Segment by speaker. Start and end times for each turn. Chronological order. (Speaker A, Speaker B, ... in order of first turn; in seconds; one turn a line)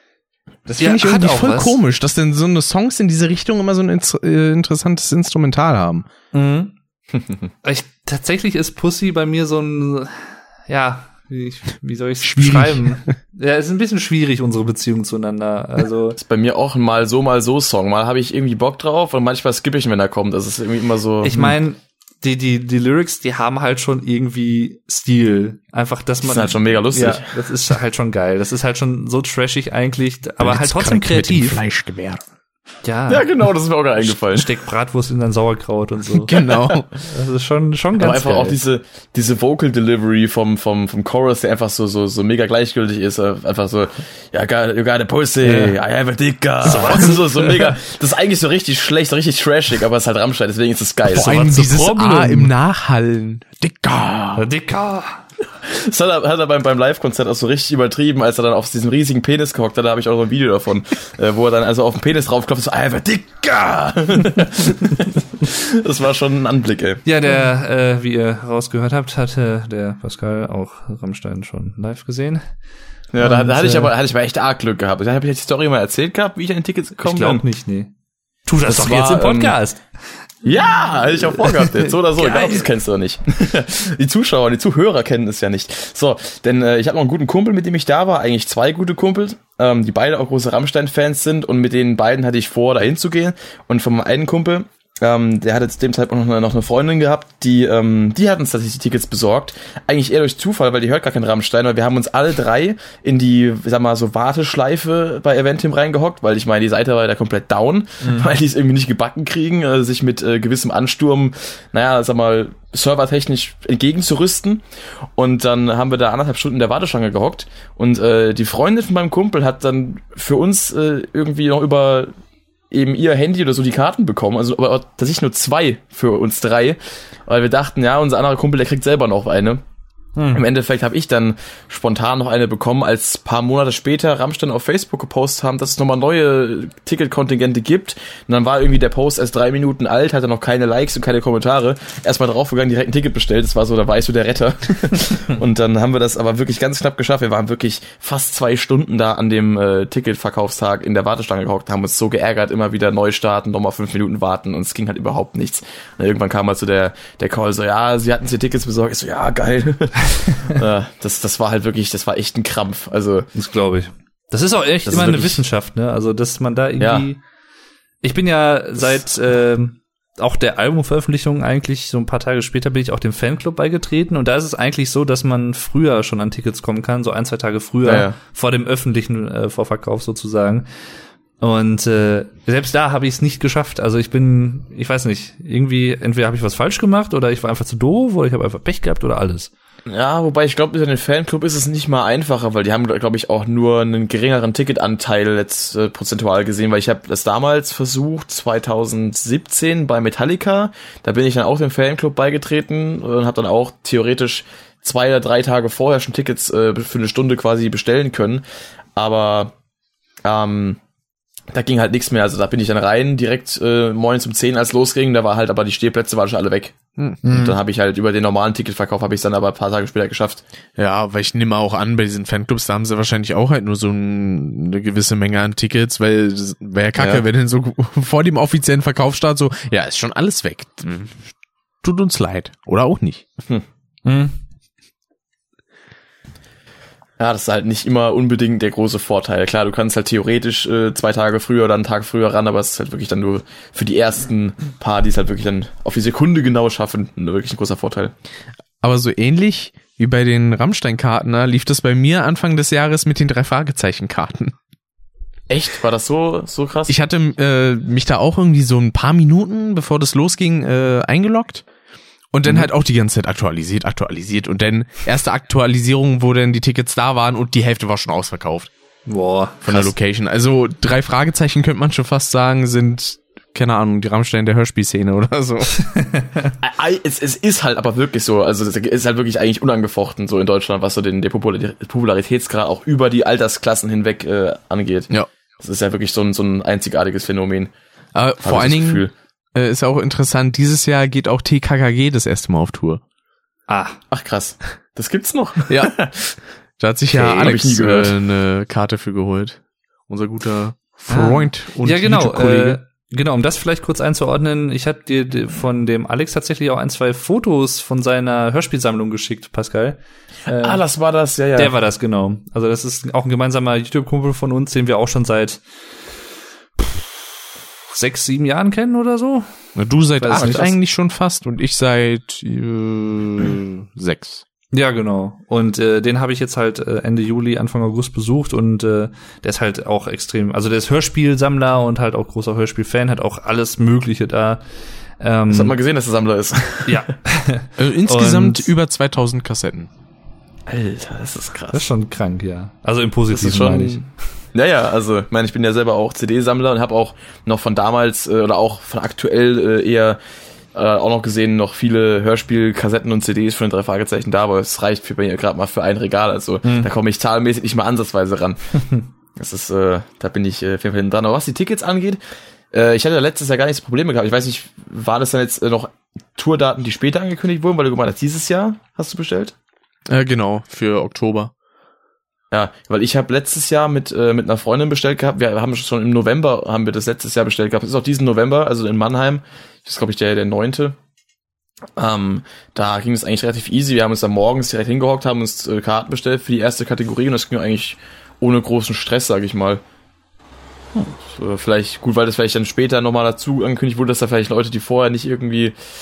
Speaker A: 0.7-6.1
Speaker B: 0.8-1.8
Speaker B: 6.3-6.7
Speaker B: 7.6-16.2
Speaker A: 12.2-13.1
Speaker C: 16.2-21.4
Speaker B: 21.2-31.6
Speaker C: 26.2-27.3
Speaker A: 30.4-32.2
Speaker B: 32.8-33.3
Speaker C: 33.1-34.5
Speaker B: 34.0-38.6
Speaker A: 36.1-36.9
Speaker C: 38.0-51.4
Speaker B: 45.5-45.7
Speaker B: 46.6-47.7
Speaker B: 51.1-52.5
Speaker A: 51.1-54.5
Speaker B: 54.4-55.2
Speaker C: 55.6-67.0
Speaker B: 67.0-72.4
Speaker C: 73.1-77.4
Speaker B: 73.2-73.9
Speaker B: 77.0-77.9
Speaker B: 78.5-79.8
Speaker C: 78.7-79.5
Speaker C: 80.4-114.6
Speaker B: 80.5-82.7
Speaker C: 115.2-122.1
Speaker C: 122.7-129.6
Speaker B: 130.2-130.4
Speaker C: 130.3-163.3
Speaker B: 163.3-167.2
Speaker C: 164.8-165.4
Speaker C: 166.8-167.1
Speaker B: 168.0-180.7
Speaker C: 177.8-178.2
Speaker B: 181.4-189.5
Speaker C: 189.9-208.4
Speaker C: 208.9-209.5
Speaker C: 210.2-210.8
Speaker C: 211.5-220.4
Speaker B: 217.2-217.5
Speaker A: 220.8-231.3
Speaker C: 227.0-227.2
Speaker A: 231.8-233.2
Speaker B: 234.0-234.3
Speaker C: 237.2-248.1
Speaker A: 248.8-254.5
Speaker C: 255.5-256.9
Speaker A: 256.9-261.6
Speaker A: 262.3-268.7
Speaker B: 269.1-269.7
Speaker A: 269.6-275.8
Speaker C: 276.6-287.7
Speaker A: 288.1-293.0
Speaker C: 288.4-289.1
Speaker B: 293.7-294.0
Speaker C: 294.1-296.4
Speaker A: 295.7-295.9
Speaker A: 296.8-302.8
Speaker C: 297.1-298.1
Speaker B: 301.1-310.8
Speaker C: 310.5-311.7
Speaker B: 311.6-315.6
Speaker B: 316.8-317.2
Speaker B: 317.9-319.4
Speaker A: 319.8-324.4
Speaker B: 320.2-320.7
Speaker C: 320.4-320.7
Speaker B: 324.7-334.6
Speaker B: 335.2-335.7
Speaker C: 335.5-337.0
Speaker B: 336.9-338.7
Speaker A: 337.8-339.9
Speaker C: 340.7-341.8
Speaker B: 341.7-344.0
Speaker C: 343.3-350.2
Speaker C: 350.7-358.6
Speaker C: 359.4-362.2
Speaker C: 362.7-369.5
Speaker A: 370.1-371.5
Speaker C: 372.5-380.9
Speaker C: 382.0-389.8
Speaker C: 390.9-395.7